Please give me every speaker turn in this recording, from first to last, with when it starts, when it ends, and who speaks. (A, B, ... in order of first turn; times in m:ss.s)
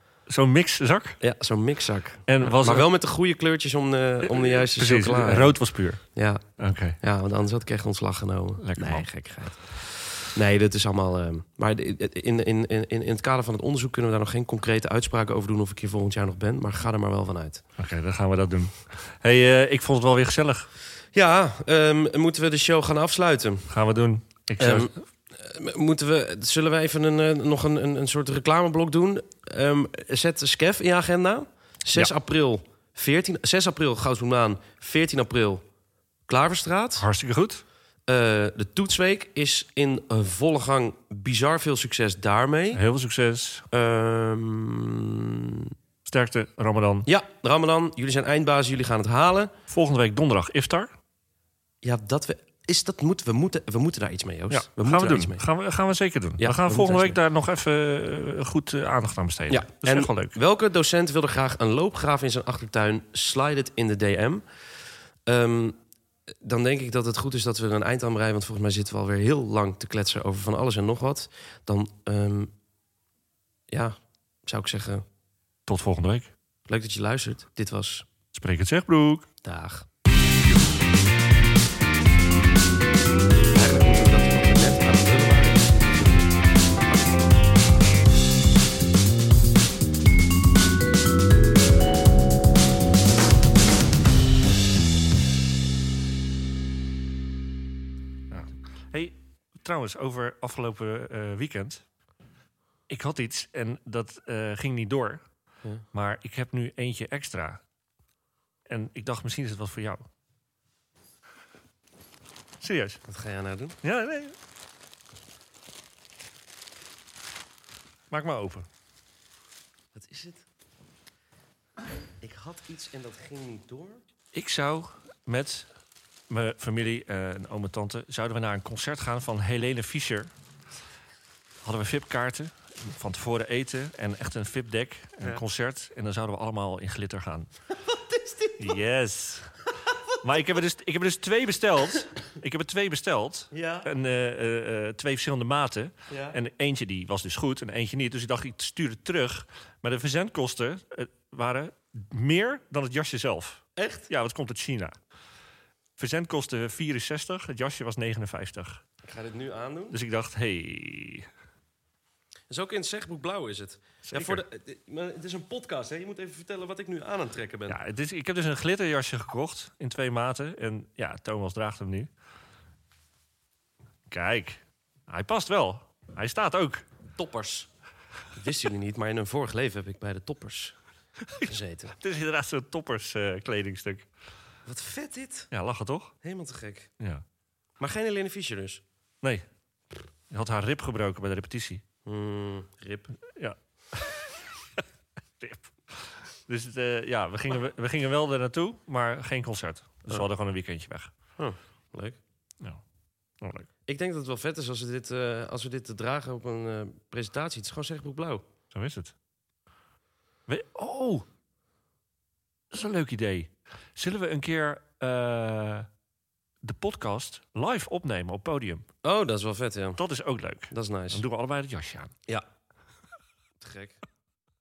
0:00.3-0:01.2 A
0:01.2-0:05.6 B
0:02.3-0:02.9 A
0:04.2-0:07.0 A
0:06.1-0:06.4 B
0:07.0-0:17.6 B
0:08.6-0:09.1 A
0:17.8-0:20.7 A
0:21.1-0:23.7 B
0:23.7-0:24.9 A
0:24.6-0:35.6 B
0:36.3-0:37.1 B
0:37.0-0:37.6 A
0:38.1-0:42.8 B
0:42.7-0:43.6 A
0:43.7-0:45.7 B
0:46.0-0:47.1 A
0:47.0-0:49.5 B
0:49.7-0:50.9 A
0:51.8-0:55.4 B
0:54.5-1:00.3 A
0:56.4-0:57.2 B
0:59.5-1:04.4 B
1:05.2-1:05.8 B
1:06.4-1:12.5 B
1:13.7-1:15.0 B
1:15.7-1:16.3 A
1:16.7-1:18.0 B
1:18.3-1:19.3 A
1:19.4-1:19.9 B
1:23.5-1:27.1 B
1:38.3-1:41.8 A
1:42.9-1:45.2 A
1:45.9-1:47.6 A
1:48.7-1:50.0 A
1:52.6-1:53.0 A
1:53.1-1:53.8 B
1:53.8-1:54.3 A
1:58.1-1:58.7 A
1:59.9-2:00.4 B
2:02.2-2:04.0 B
2:04.3-2:05.7 A
2:06.3-2:10.3 A
2:11.6-2:17.5 A
2:17.8-2:18.8 B
2:18.6-2:19.6 A
2:20.2-2:34.9 A
2:23.5-2:23.9 B
2:26.1-2:26.4 B
2:33.8-2:34.1 B
2:36.0-2:38.8 A
2:39.0-2:40.0 B
2:39.9-2:41.3 A
2:42.5-2:47.8 B
2:44.0-2:44.4 A
2:47.7-2:52.1 A
2:54.1-2:56.8 A
2:57.2-2:57.7 B
2:58.3-3:00.8 B
3:01.3-3:04.1 A
3:01.4-3:01.9 B
3:04.6-3:05.5 B
3:05.5-3:06.2 A
3:06.2-3:06.9 B
3:07.8-3:08.8 B
3:10.3-3:11.8 A
3:12.0-3:13.1 B
3:13.4-3:14.3 A
3:15.4-3:21.1 A
3:21.4-3:22.2 B
3:23.4-3:23.7 A
3:23.8-3:28.4 B
3:28.7-3:29.1 A
3:30.5-3:31.2 A
3:32.7-3:35.9 A
3:36.6-3:38.9 A
3:39.0-3:40.0 B
3:40.0-3:42.1 A
3:40.7-3:41.2 B
3:43.6-3:44.0 B